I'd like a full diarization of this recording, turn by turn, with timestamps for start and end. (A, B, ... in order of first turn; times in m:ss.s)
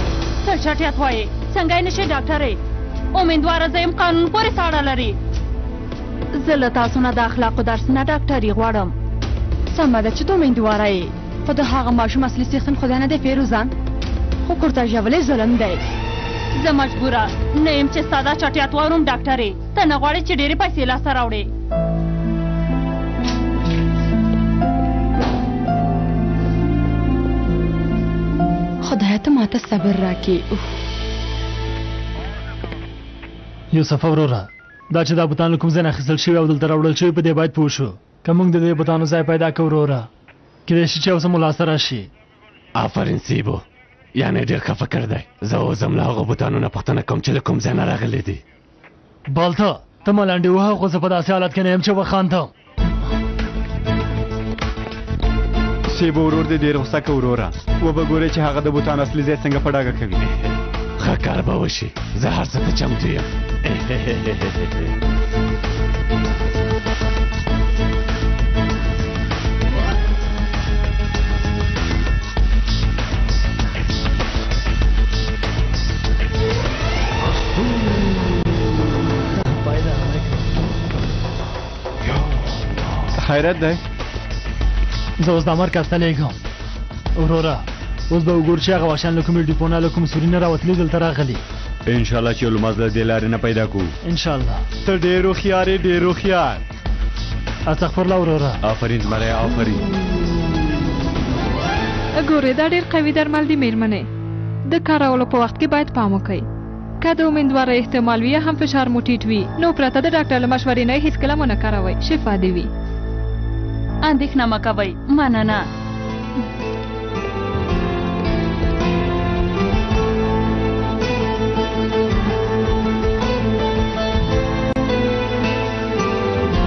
0:00.4-0:02.6 A
0:03.1-0:05.2 A
0:06.4-0:08.9 A
0:09.7-0:13.7 B
0:14.5-0:15.8 B
0:16.6-0:21.5 A
0:28.8-0:30.8 B
0:33.7-0:40.1 C
0:40.7-0:42.1 C
0:42.8-0:43.6 D
0:44.2-0:48.4 D
0:49.3-0:52.5 C
0:55.9-1:00.2 E
1:01.0-1:03.3 D
1:19.4-1:20.4 C
1:23.2-1:23.8 E
1:25.2-1:26.4 C
1:27.2-1:31.4 C
1:31.9-1:33.9 F
1:34.0-1:34.6 C
1:34.8-1:36.6 E
1:37.7-1:38.6 C
1:38.6-1:39.9 F
1:42.2-1:44.1 G
1:44.7-1:46.5 G
1:47.0-1:52.7 G
1:54.0-1:55.6 A